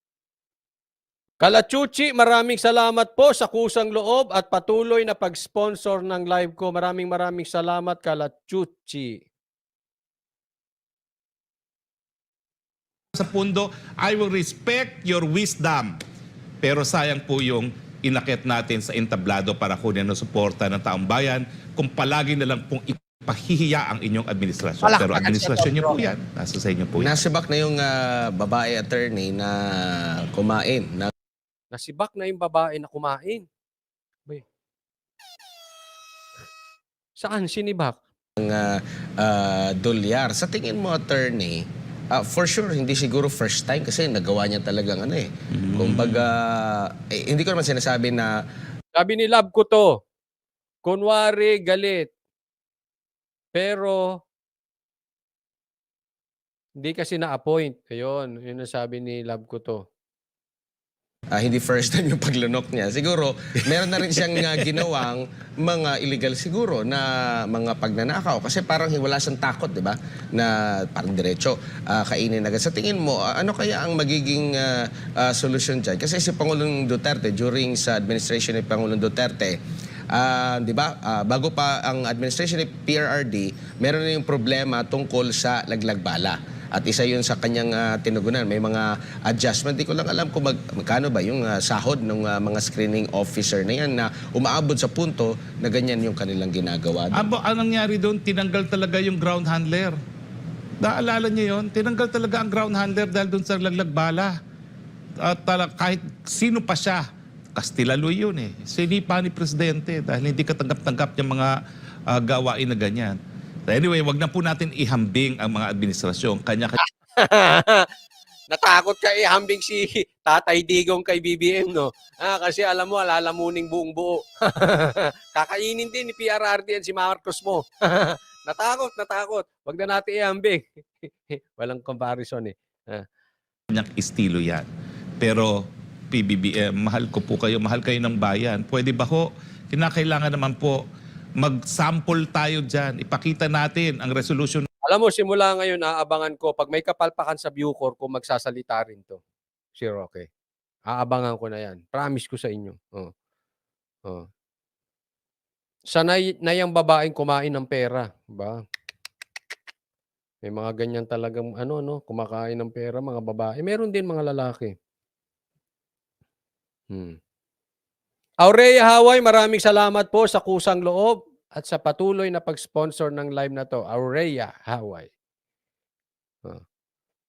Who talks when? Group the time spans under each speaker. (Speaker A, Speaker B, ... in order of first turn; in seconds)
Speaker A: 1.4-9.2, 24.8-26.1, 31.7-33.5, 37.2-38.0, 48.9-50.0, 50.8-52.1, 53.5-54.0, 56.8-59.8, 117.1-117.9, 118.5-133.0, 144.8-149.2, 149.8-150.3, 150.9-153.1, 155.9-158.6, 160.4-164.8, 166.9-167.2, 168.4-175.1
Speaker B: 13.2-15.9, 16.6-27.2, 97.1-100.0, 100.8-104.3, 105.2-107.0, 107.6-111.5, 112.1-113.2, 113.7-116.8, 133.7-134.7, 135.2-135.6, 136.1-140.8, 141.4-144.7
Speaker C: 27.0-31.1, 38.4-48.4, 61.3-79.6, 80.1-97.3